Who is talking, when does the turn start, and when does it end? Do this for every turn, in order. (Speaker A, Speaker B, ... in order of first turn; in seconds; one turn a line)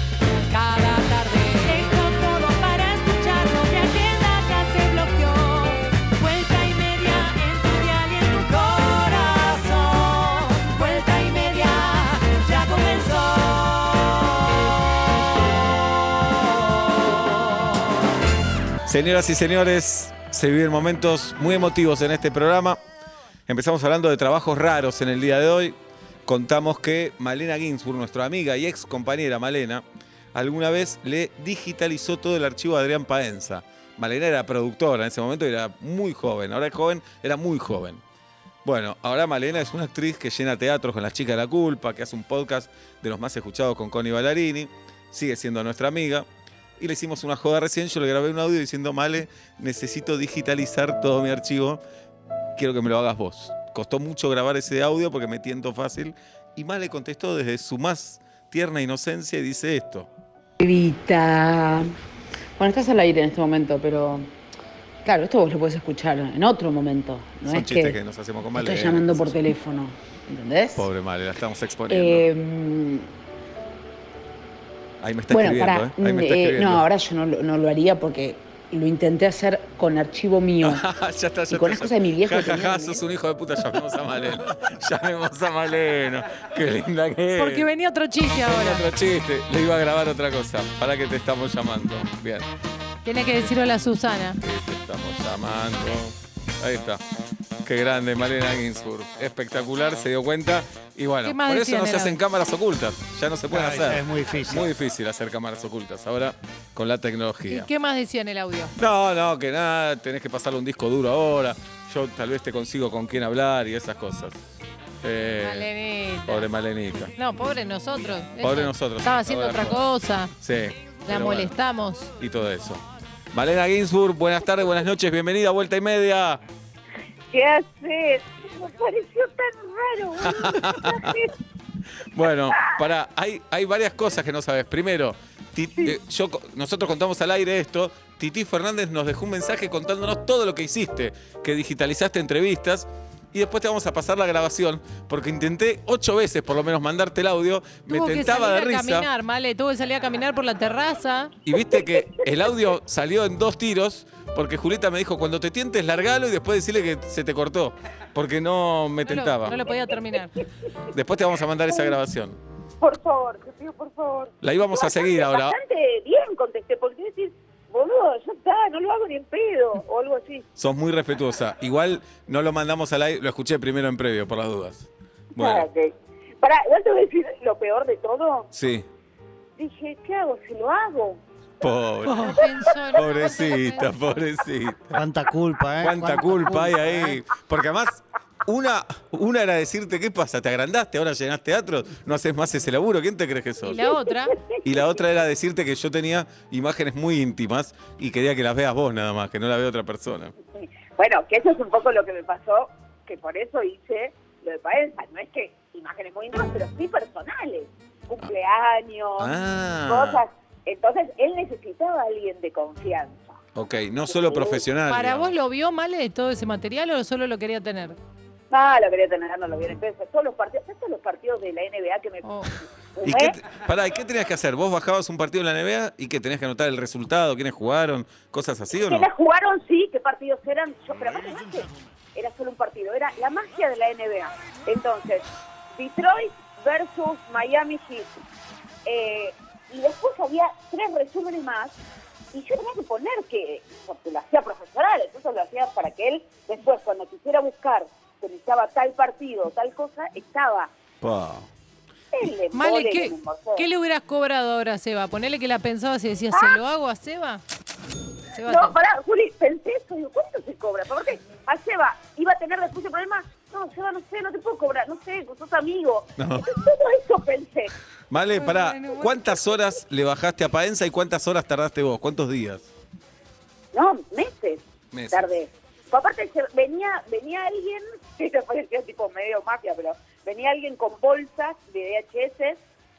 Speaker A: 0.5-17.9
Speaker B: 18.9-22.8
Speaker B: 23.5-29.8
Speaker B: 30.3-38.0
Speaker B: 38.6-46.2
Speaker B: 46.8-51.8
Speaker B: 52.6-60.1
Speaker C: 60.6-61.9
Speaker C: 62.6-64.3
Speaker C: 65.0-68.0
Speaker B: 67.5-69.4
Speaker C: 68.5-70.9
Speaker B: 70.8-72.3
Speaker C: 71.9-73.1
Speaker B: 75.0-76.8
Speaker C: 75.3-80.8
Speaker B: 80.6-87.7
Speaker C: 81.5-83.0
Speaker D: 87.4-88.8
Speaker B: 88.4-92.5
Speaker D: 93.0-94.4
Speaker B: 94.4-97.0
Speaker B: 97.6-107.7
Speaker D: 101.2-102.2
Speaker E: 103.5-104.7
Speaker D: 107.5-108.7
Speaker B: 108.8-114.4
Speaker B: 115.0-115.7
Speaker D: 115.4-116.4
Speaker B: 116.2-117.1
Speaker D: 117.2-120.3
Speaker B: 118.4-119.9
Speaker B: 120.4-121.5
Speaker D: 121.0-122.1
Speaker B: 122.2-126.4
Speaker F: 127.3-131.3
Speaker B: 130.2-131.2
Speaker B: 132.1-149.1
Speaker F: 132.5-132.8
Speaker D: 147.9-151.3
Speaker B: 151.4-159.6
Speaker F: 151.6-152.5
Speaker D: 159.0-160.3
Speaker F: 159.6-160.2
Speaker B: 160.9-162.4
Speaker F: 161.7-162.0
Speaker F: 162.8-170.4
Speaker B: 164.4-165.6
Speaker B: 170.6-175.7
Speaker F: 175.3-178.5
Speaker B: 178.5-178.8
Speaker F: 179.6-181.2
Speaker B: 181.6-185.0
Speaker D: 182.0-183.9
Speaker E: 184.9-187.2
Speaker B: 185.8-193.8
Speaker D: 193.6-194.4
Speaker F: 194.5-195.0
Speaker B: 194.6-200.3
Speaker F: 200.9-213.4
Speaker B: 209.2-210.2
Speaker B: 213.5-215.3
Speaker F: 214.1-214.6
Speaker D: 214.9-218.0
Speaker F: 218.5-222.2
Speaker D: 222.2-222.5
Speaker F: 222.9-223.4
Speaker B: 223.0-229.1
Speaker F: 228.8-235.2
Speaker F: 235.7-238.2
Speaker F: 238.8-241.7
Speaker F: 242.3-250.7
Speaker B: 251.0-251.5
Speaker F: 252.1-253.7
Speaker D: 252.5-257.4
Speaker F: 256.3-256.6
Speaker D: 258.3-258.7
Speaker F: 258.4-267.7
Speaker B: 266.2-266.5
Speaker B: 268.1-272.7
Speaker D: 268.3-269.2
Speaker F: 273.7-282.6
Speaker B: 274.9-275.3